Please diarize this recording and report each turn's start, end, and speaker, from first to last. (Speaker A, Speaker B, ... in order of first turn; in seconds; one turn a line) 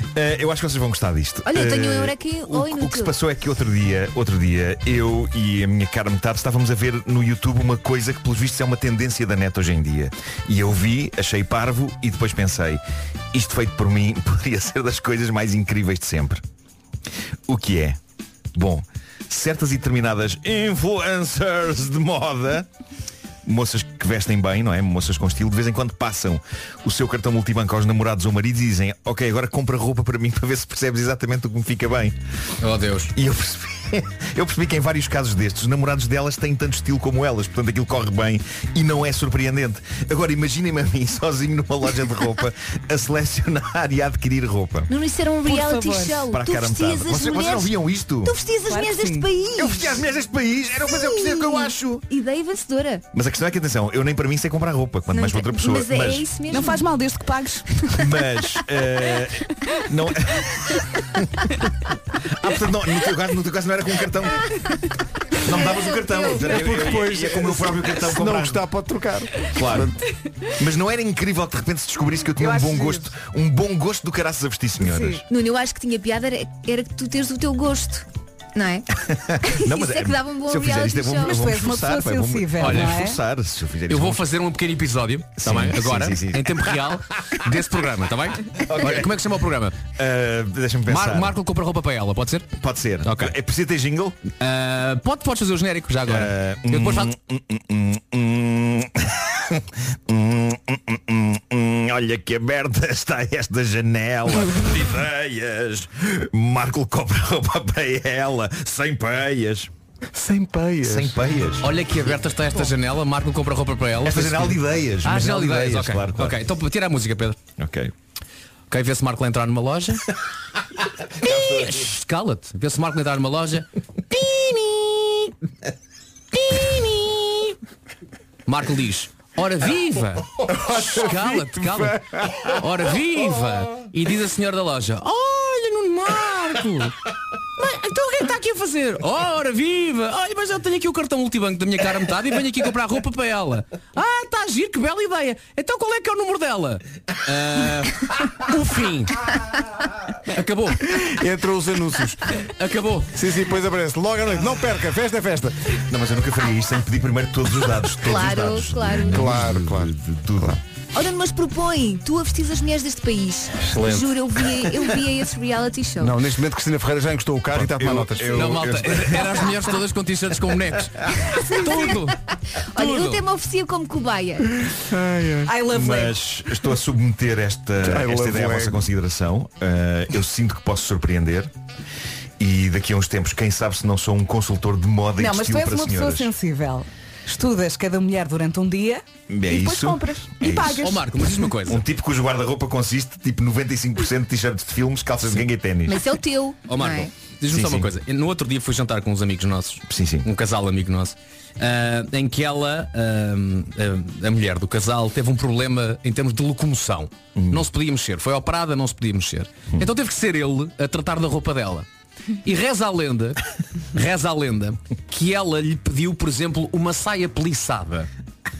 Speaker A: 0.1-12.8
Speaker B: 1.4-3.1
Speaker A: 13.3-16.4
Speaker A: 17.5-18.0
Speaker A: 18.5-22.7
Speaker A: 23.4-32.1
Speaker C: 32.6-33.1
Speaker A: 33.1-44.9
Speaker B: 44.9-49.9
Speaker D: 45.4-46.2
Speaker A: 46.3-48.3
Speaker D: 48.7-49.3
Speaker A: 49.6-52.0
Speaker B: 50.9-53.0
Speaker A: 53.1-56.2
Speaker B: 55.1-56.9
Speaker D: 56.5-58.2
Speaker A: 58.0-60.8
Speaker A: 62.3-64.5
Speaker A: 65.4-68.6
Speaker B: 65.5-66.7
Speaker E: 66.4-70.0
Speaker A: 69.5-69.9
Speaker A: 70.6-75.2
Speaker D: 72.4-73.1
Speaker D: 74.8-75.2
Speaker B: 75.3-78.8
Speaker A: 79.1-84.2
Speaker B: 79.4-81.4
Speaker D: 81.2-83.2
Speaker C: 82.6-83.0
Speaker C: 83.9-89.7
Speaker A: 85.4-87.0
Speaker A: 88.6-89.4
Speaker A: 89.9-91.4
Speaker C: 90.9-92.5
Speaker A: 92.6-94.2
Speaker C: 93.0-93.3
Speaker C: 94.3-97.1
Speaker A: 96.0-109.7
Speaker E: 110.1-111.2
Speaker A: 110.8-111.8
Speaker C: 111.6-117.4
Speaker A: 114.0-116.4
Speaker A: 117.6-117.9
Speaker C: 118.7-120.0
Speaker A: 121.2-122.0
Speaker C: 121.2-125.3
Speaker C: 126.3-127.5
Speaker C: 128.4-136.9
Speaker E: 130.7-132.4
Speaker C: 137.6-149.2
Speaker C: 150.3-151.0
Speaker E: 151.1-152.3
Speaker C: 152.4-153.1
Speaker E: 153.1-155.7
Speaker A: 155.8-160.6
Speaker B: 158.0-159.3
Speaker E: 159.0-160.6
Speaker B: 160.9-166.2
Speaker E: 163.7-164.1
Speaker E: 166.0-168.8
Speaker A: 167.5-169.6
Speaker C: 168.2-172.2
Speaker B: 171.5-174.5
Speaker C: 172.8-173.2
Speaker E: 174.9-175.5
Speaker D: 175.4-176.2
Speaker A: 175.7-181.5
Speaker E: 177.8-178.8
Speaker A: 182.4-186.3
Speaker D: 185.2-191.5
Speaker A: 189.3-191.0
Speaker C: 190.8-191.8
Speaker A: 191.6-196.0
Speaker B: 195.9-197.1
Speaker C: 196.7-211.9
Speaker A: 197.5-197.9
Speaker A: 199.9-200.3
Speaker A: 207.3-207.7
Speaker C: 212.4-213.4
Speaker C: 213.9-218.1